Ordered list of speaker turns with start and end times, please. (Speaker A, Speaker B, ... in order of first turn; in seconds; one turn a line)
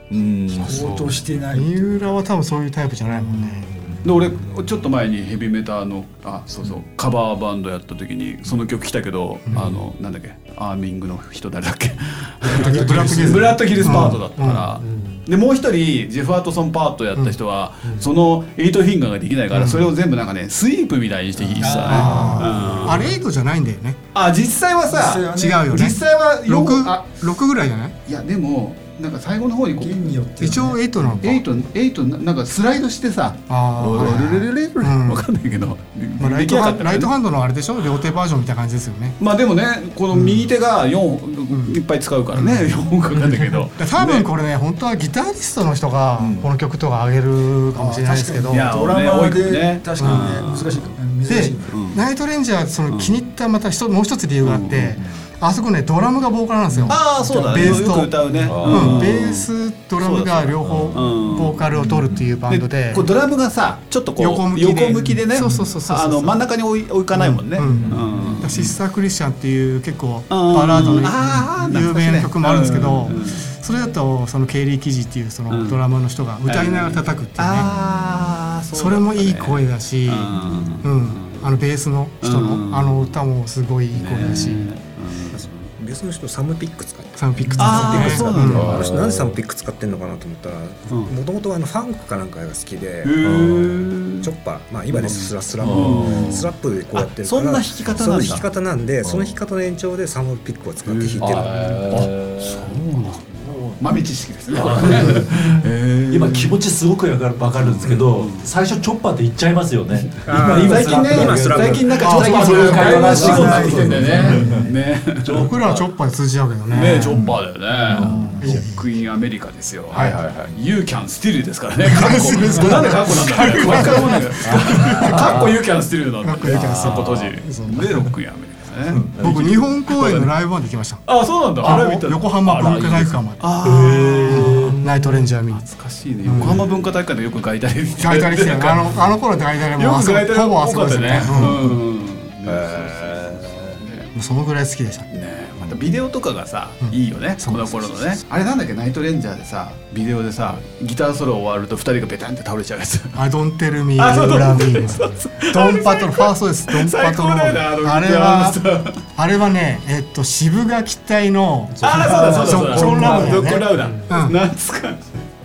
Speaker A: 0.1-1.1
Speaker B: 0.5-1.8
Speaker C: 1.5-3.7
Speaker A: 4.0-23.1
Speaker C: 9.5-9.8
Speaker C: 12.4-14.8
Speaker B: 12.7-13.3
Speaker C: 19.5-19.9
Speaker B: 21.6-23.1
Speaker C: 21.8-24.0
Speaker A: 24.1-27.0
Speaker B: 24.9-25.9
Speaker C: 25.3-27.9
Speaker A: 28.1-30.1
Speaker B: 29.8-30.8
Speaker C: 30.4-31.4
Speaker A: 31.2-37.1
Speaker C: 33.5-35.3
Speaker C: 36.2-39.2
Speaker A: 39.2-44.3
Speaker C: 40.1-40.5
Speaker C: 41.5-41.8
Speaker C: 42.3-48.7
Speaker A: 46.2-46.5
Speaker B: 47.7-51.8
Speaker A: 48.5-51.0
Speaker C: 50.0-50.5
Speaker C: 51.3-63.1
Speaker A: 51.7-52.0
Speaker A: 52.9-53.2
Speaker A: 54.4-55.0
Speaker D: 56.7-57.0
Speaker A: 56.9-68.8
Speaker D: 57.5-59.2
Speaker D: 60.6-61.2
Speaker D: 61.8-62.4
Speaker C: 64.2-66.4
Speaker C: 67.1-77.7
Speaker D: 67.6-68.6
Speaker A: 70.3-73.5
Speaker A: 75.5-75.8
Speaker A: 76.5-81.5
Speaker C: 78.7-84.7
Speaker D: 80.4-80.7
Speaker A: 82.2-83.2
Speaker A: 83.9-85.7
Speaker E: 85.3-93.2
Speaker C: 87.2-88.8
Speaker A: 87.5-89.0
Speaker D: 87.7-89.4
Speaker A: 93.0-94.3
Speaker D: 93.2-93.8
Speaker E: 94.2-101.9
Speaker A: 94.9-98.4
Speaker D: 95.6-96.4
Speaker D: 98.0-98.4
Speaker D: 99.0-99.3
Speaker A: 100.8-106.6
Speaker D: 101.2-103.8
Speaker D: 104.5-115.9
Speaker A: 107.6-108.5
Speaker A: 110.0-115.5
Speaker E: 110.2-113.5
Speaker C: 112.0-114.0
Speaker B: 112.7-114.7
Speaker C: 115.3-117.2
Speaker A: 116.7-130.3
Speaker D: 116.9-118.6
Speaker C: 118.4-118.8
Speaker C: 119.9-120.2
Speaker D: 120.0-120.5
Speaker C: 121.8-125.3
Speaker D: 123.4-125.6
Speaker C: 126.2-128.1
Speaker D: 126.5-127.2
Speaker D: 128.9-129.4
Speaker C: 129.2-133.5
Speaker A: 131.1-139.1
Speaker D: 132.6-135.0
Speaker C: 134.3-135.7
Speaker C: 136.2-136.7
Speaker C: 138.0-141.7
Speaker A: 139.7-144.1
Speaker D: 141.2-141.5
Speaker D: 142.4-143.8
Speaker C: 144.1-145.1
Speaker A: 145.1-153.2
Speaker C: 146.8-147.8
Speaker C: 153.2-158.6
Speaker A: 154.0-159.0
Speaker C: 159.1-164.4
Speaker A: 161.8-165.2
Speaker D: 161.8-163.6